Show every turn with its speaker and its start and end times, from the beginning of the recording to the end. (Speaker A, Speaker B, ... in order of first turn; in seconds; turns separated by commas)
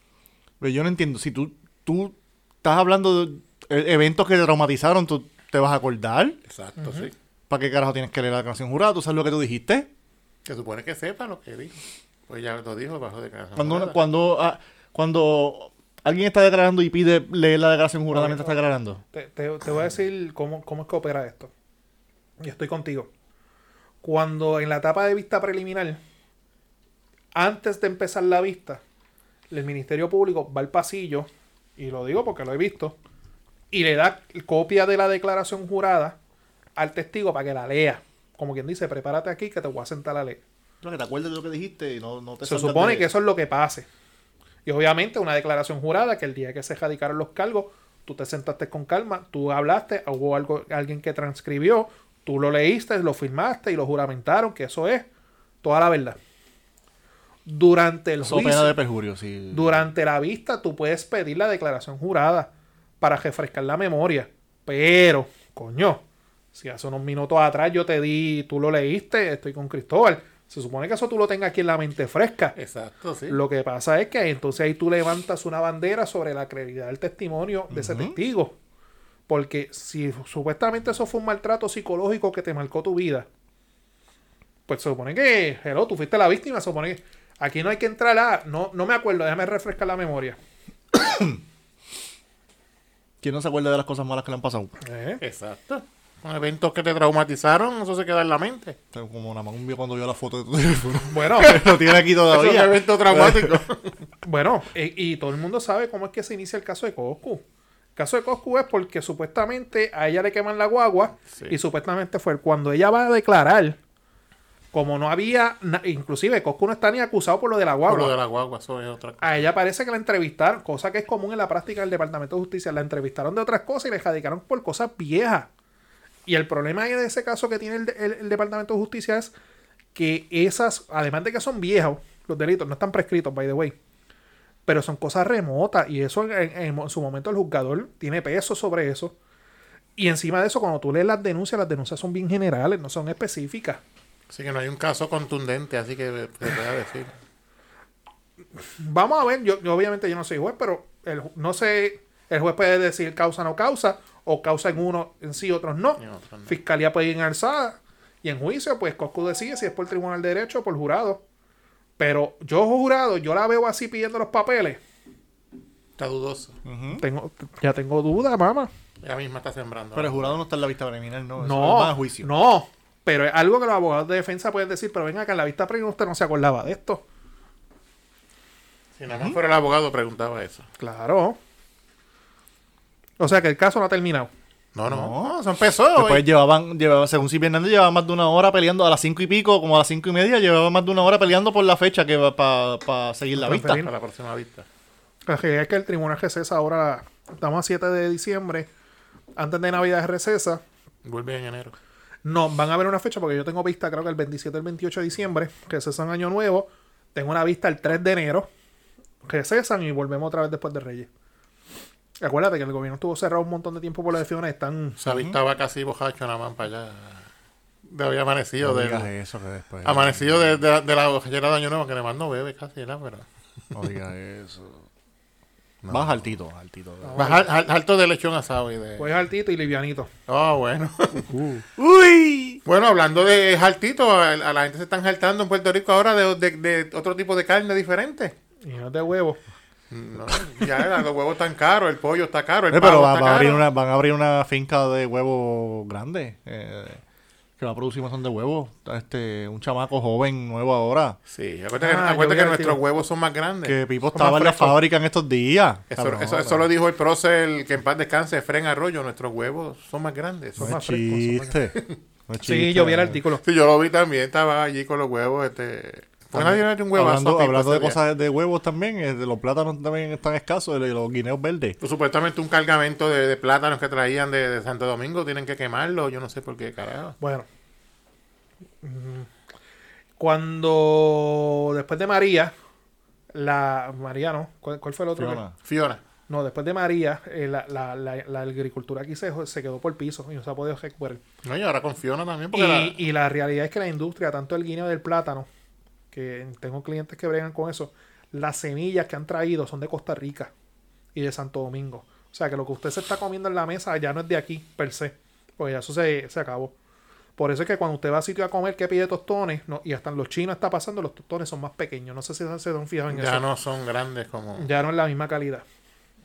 Speaker A: 0.6-6.4, Speaker B: 6.5-7.1, Speaker C: 6.8-7.1, Speaker A: 7.5-9.9, Speaker B: 10.4-11.8, Speaker B: 12.3-14.0, Speaker A: 13.6-19.0, Speaker C: 18.1-18.6, Speaker C: 19.1-21.5, Speaker C: 22.4-23.1, Speaker C: 24.0-26.0, Speaker C: 27.3-28.8, Speaker C: 29.5-33.0, Speaker C: 33.7-36.2, Speaker C: 36.8-40.4, Speaker A: 40.8-43.1, Speaker C: 42.4-43.9, Speaker C: 44.6-55.1, Speaker C: 55.6-56.2, Speaker C: 57.5-58.8, Speaker A: 58.2-59.8, Speaker C: 59.5-62.5, Speaker C: 63.0-66.0, Speaker C: 66.5-72.5, Speaker B: 72.5-73.4, Speaker C: 73.3-78.6, Speaker A: 77.7-78.2, Speaker C: 79.3-83.3, Speaker C: 84.7-90.4, Speaker A: 91.0-91.4, Speaker A: 93.2-94.8, Speaker C: 94.8-95.2, Speaker B: 95.2-98.8, Speaker A: 98.9-103.6, Speaker C: 101.1-101.5, Speaker B: 101.4-103.9, Speaker C: 104.2-107.4, Speaker C: 108.0-113.8, Speaker C: 114.7-118.1, Speaker B: 117.9-119.5, Speaker C: 119.2-125.5, Speaker C: 126.3-129.3, Speaker C: 129.9-133.7, Speaker C: 134.7-139.1, Speaker C: 140.0-143.8, Speaker B: 144.3-147.1, Speaker C: 148.8-161.2, Speaker B: 156.0-156.5, Speaker C: 162.0-164.8, Speaker B: 166.0-166.6, Speaker A: 166.6-167.0, Speaker C: 167.0-168.7, Speaker B: 169.0-170.3, Speaker A: 169.9-172.3, Speaker C: 171.4-177.0, Speaker B: 179.0-180.7, Speaker C: 180.8-181.4, Speaker C: 183.2-184.3, Speaker B: 184.7-186.2, Speaker A: 184.9-185.3, Speaker A: 185.9-193.9, Speaker C: 193.4-193.9, Speaker B: 193.6-194.7, Speaker C: 195.2-198.7, Speaker C: 199.4-200.6, Speaker B: 201.0-201.7, Speaker C: 202.2-208.5, Speaker C: 209.2-211.1, Speaker C: 212.2-215.0, Speaker B: 215.0-217.2, Speaker A: 215.1-215.3, Speaker B: 217.8-219.1, Speaker A: 218.6-220.6, Speaker B: 219.8-223.2, Speaker A: 223.7-224.8, Speaker B: 225.8-226.2, Speaker A: 225.9-227.3, Speaker C: 227.0-227.4, Speaker B: 227.2-229.1, Speaker C: 229.0-230.1, Speaker B: 230.3-231.3, Speaker A: 231.3-232.6, Speaker B: 232.7-238.3, Speaker C: 238.6-239.4, Speaker B: 239.9-243.6, Speaker A: 242.7-247.0, Speaker A: 247.6-251.2, Speaker B: 251.3-253.8, Speaker C: 251.8-252.8, Speaker A: 253.6-256.7, Speaker C: 254.1-254.8, Speaker B: 255.9-260.7, Speaker C: 260.6-261.6, Speaker A: 260.6-263.2, Speaker C: 262.4-263.4, Speaker B: 263.4-268.0, Speaker A: 266.3-271.8, Speaker B: 271.8-277.1, Speaker C: 277.2-277.4, Speaker C: 278.8-279.3, Speaker C: 280.2-282.5, Speaker C: 283.3-285.4, Speaker A: 285.2-285.5, Speaker B: 285.6-286.0, Speaker C: 286.3-291.2, Speaker B: 291.4-293.0, Speaker C: 292.5-295.5, Speaker C: 296.1-300.5, Speaker C: 301.1-306.7, Speaker C: 307.4-313.4, Speaker B: 313.1-314.7, Speaker C: 314.6-315.6